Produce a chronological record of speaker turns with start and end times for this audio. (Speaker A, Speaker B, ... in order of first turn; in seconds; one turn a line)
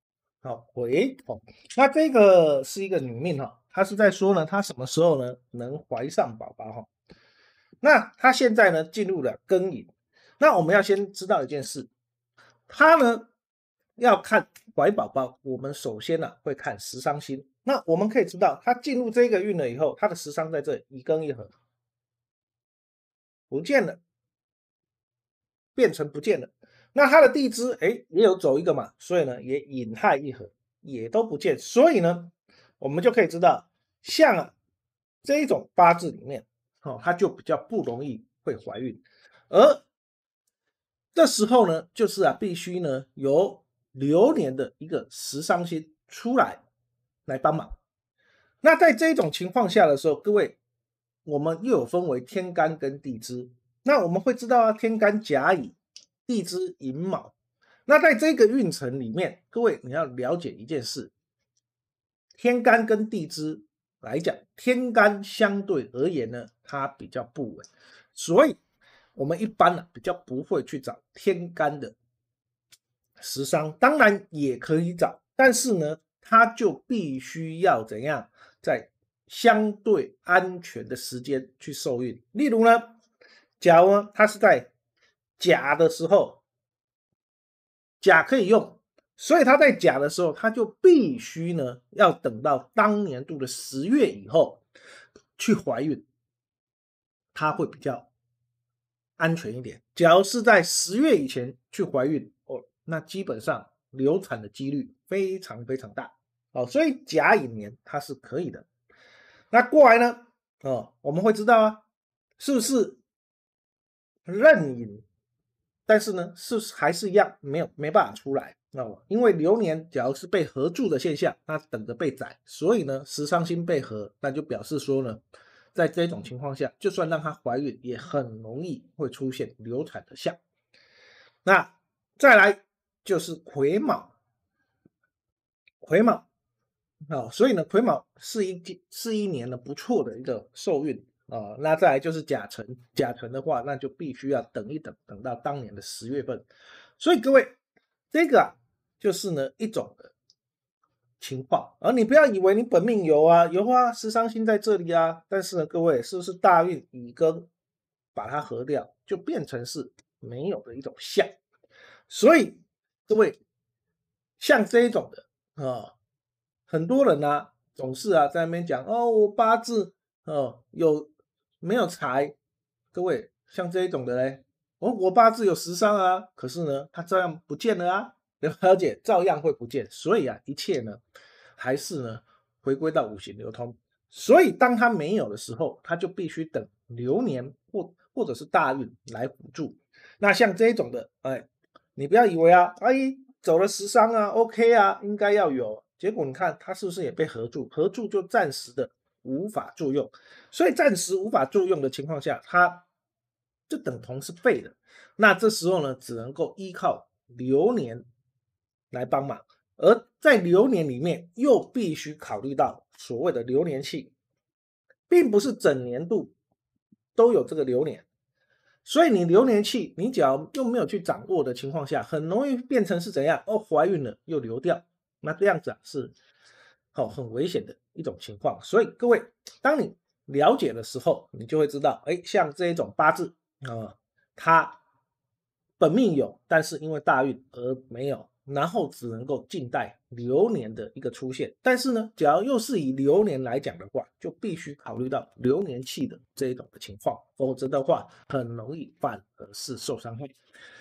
Speaker A: 0.4-6.9
Speaker A: 7.8-11.9
Speaker A: 12.7-13.3
Speaker A: 14.0-21.5
Speaker A: 23.5-24.0
Speaker A: 25.7-34.5
Speaker A: 35.2-39.8
Speaker A: 41.1-46.6
Speaker A: 47.2-47.8
Speaker A: 48.6-50.6
Speaker A: 51.2-57.3
Speaker A: 57.9-61.1
Speaker A: 62.4-68.6
Speaker A: 69.2-72.0
Speaker A: 73.2-82.9
Speaker A: 83.6-84.7
Speaker A: 85.4-86.4
Speaker A: 88.0-94.6
Speaker A: 95.4-96.0
Speaker A: 97.3-98.1
Speaker A: 99.2-108.7
Speaker A: 109.5-111.8
Speaker A: 112.4-113.0
Speaker A: 114.3-115.0
Speaker A: 115.9-125.2
Speaker A: 125.7-130.4
Speaker A: 131.4-134.1
Speaker A: 135.8-136.3
Speaker A: 137.1-146.4
Speaker A: 147.0-147.5
Speaker A: 148.1-150.1
Speaker A: 151.2-157.5
Speaker A: 158.1-161.3
Speaker A: 162.1-163.4
Speaker A: 164.4-165.9
Speaker A: 166.7-171.1
Speaker A: 171.6-172.3
Speaker A: 172.9-181.0
Speaker A: 181.6-202.8
Speaker A: 203.7-208.1
Speaker A: 208.9-214.1
Speaker A: 215.1-216.3
Speaker A: 217.2-218.1
Speaker A: 218.8-226.1
Speaker A: 226.9-234.8
Speaker A: 235.8-250.3